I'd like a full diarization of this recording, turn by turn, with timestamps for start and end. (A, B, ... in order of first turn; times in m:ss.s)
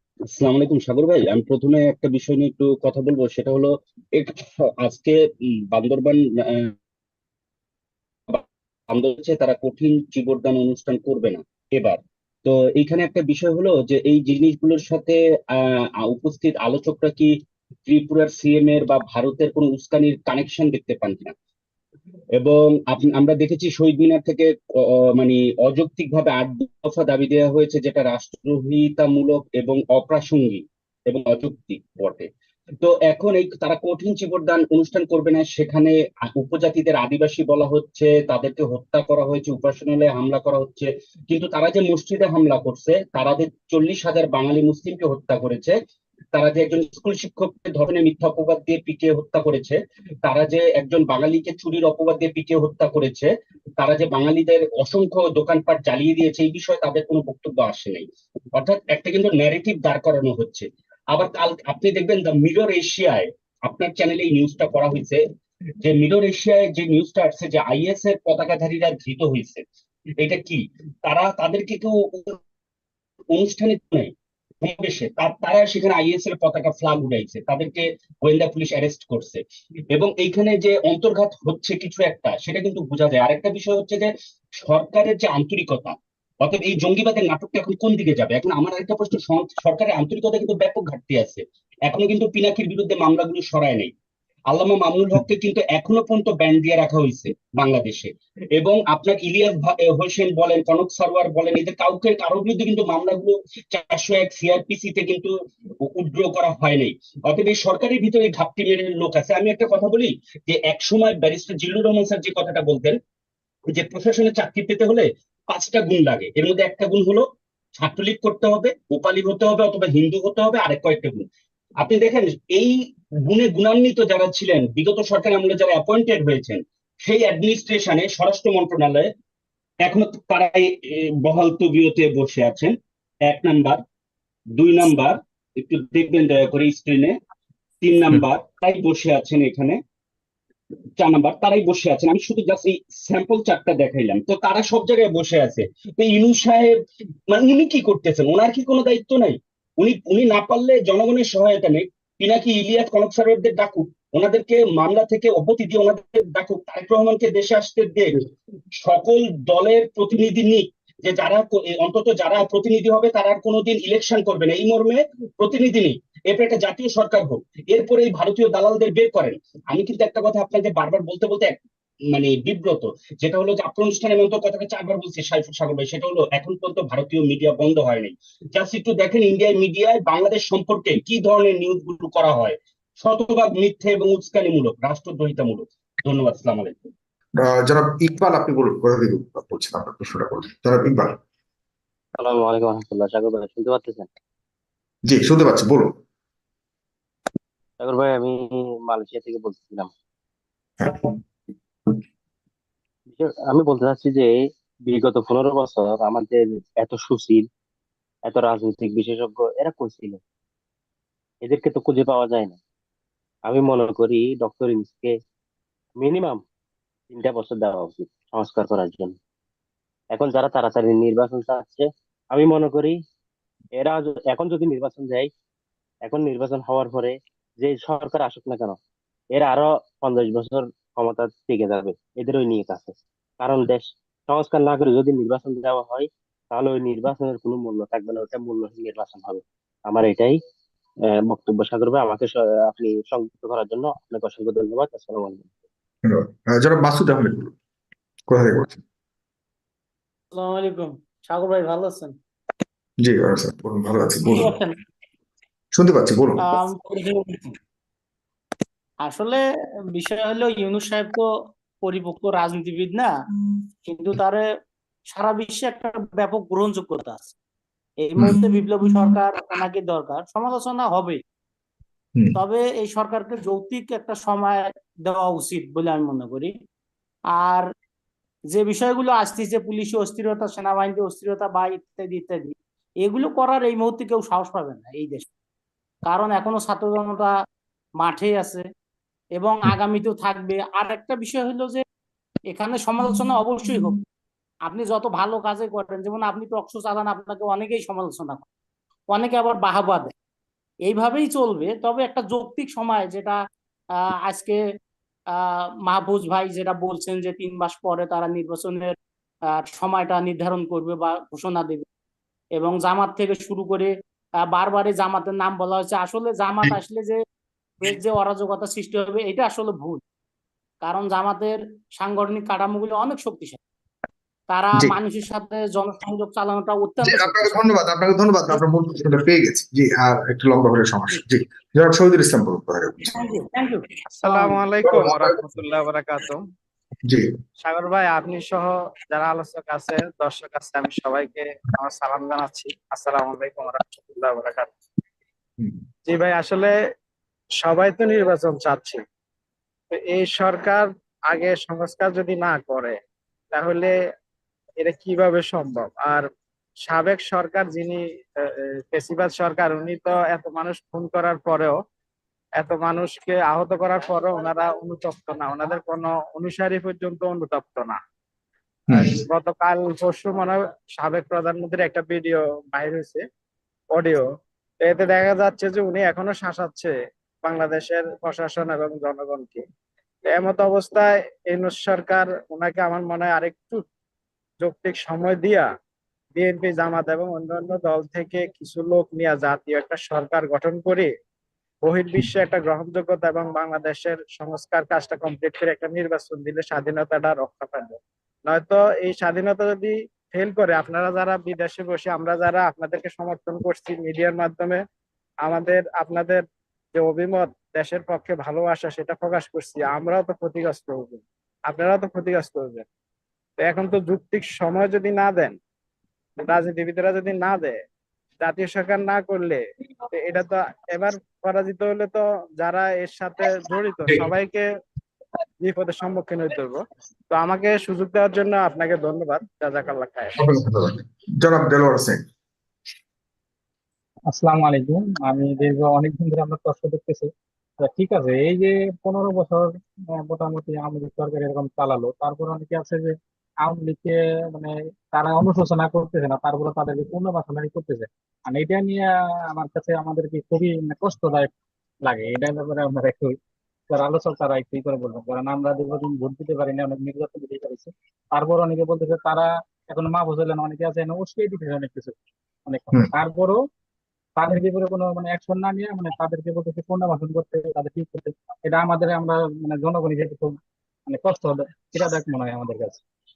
0:00.4-0:05.2 A
0:05.7-0:06.7 A
0:08.3-0:17.3 A
0:17.9-0:21.3 A
0:22.4-0:32.3 A
0:32.8-0:45.8 A
0:46.3-1:05.2 A
1:05.8-1:09.6 A
1:10.2-1:12.4 A
1:13.3-1:33.9 A
1:34.5-1:53.0 A
1:53.7-1:57.3 A
1:57.8-2:01.2 A
2:01.8-2:09.1 A
2:09.8-2:13.8 A
2:14.6-2:17.2 A
2:17.8-2:19.8 A
2:21.0-2:26.8 A
2:27.3-2:38.2 A
2:38.8-2:51.6 A
2:52.1-3:06.9 A
3:07.4-3:11.1 B
3:12.2-3:14.1 C
3:15.0-3:15.9 B
3:17.8-3:19.9 C
3:20.8-3:21.2 B
3:23.1-3:24.3 C
3:24.8-3:27.5 C
3:28.2-3:30.2 C
3:31.4-3:32.6 C
3:33.5-3:35.1 C
3:36.0-3:36.4 C
3:37.1-3:39.2 C
3:40.1-3:43.0 C
3:43.8-3:45.3 C
3:46.0-3:48.8 C
3:49.3-4:00.4 C
4:01.1-4:05.5 C
4:06.0-4:07.5 B
4:08.3-4:08.8 B
4:10.3-4:12.1 D
4:13.0-4:14.6 B
4:14.3-4:14.8 D
4:15.7-4:16.4 B
4:16.4-4:17.5 D
4:19.0-4:19.4 D
4:19.9-4:21.2 D
4:21.8-4:23.1 D
4:23.8-4:24.4 D
4:25.1-4:27.3 D
4:28.0-4:31.2 D
4:32.4-4:36.5 D
4:37.4-4:37.6 D
4:38.5-4:45.3 D
4:46.1-4:47.3 D
4:48.0-4:48.6 D
4:49.4-4:51.8 D
4:52.5-4:54.0 D
4:54.7-4:58.4 D
4:59.1-5:00.1 D
5:00.8-5:03.4 D
5:04.2-5:04.6 D
5:05.4-5:08.9 D
5:09.6-5:11.8 D
5:12.6-5:13.9 D
5:14.5-5:17.2 D
5:17.8-5:20.0 D
5:20.8-5:23.6 D
5:24.5-5:27.6 D
5:27.0-5:33.2 B
5:33.1-5:34.6 D
5:34.1-5:36.4 E
5:34.8-5:35.4 B
5:37.6-5:44.7 E
5:46.1-5:46.7 E
5:47.6-5:49.0 E
5:49.9-5:53.0 E
5:53.5-5:53.9 E
5:54.8-5:56.2 E
5:56.9-5:58.0 E
5:58.9-6:01.8 E
6:02.6-6:08.0 E
6:08.9-6:09.2 B
6:08.9-6:13.2 E
6:13.9-6:14.3 E
6:14.8-6:16.9 E
6:17.4-6:19.6 E
6:20.3-6:23.8 E
6:24.6-6:25.7 E
6:26.4-6:31.1 E
6:31.8-6:44.8 E
6:45.4-6:46.4 E
6:46.9-6:52.9 E
6:53.6-6:55.6 E
6:56.4-6:57.8 E
6:58.4-6:59.6 E
7:00.1-7:04.6 E
7:05.6-7:06.8 E
7:07.3-7:10.4 E
7:10.4-7:12.2 B
7:14.3-7:31.5 F
7:32.0-7:33.4 F
7:33.9-7:42.1 F
7:42.7-7:43.6 F
7:44.4-7:53.0 F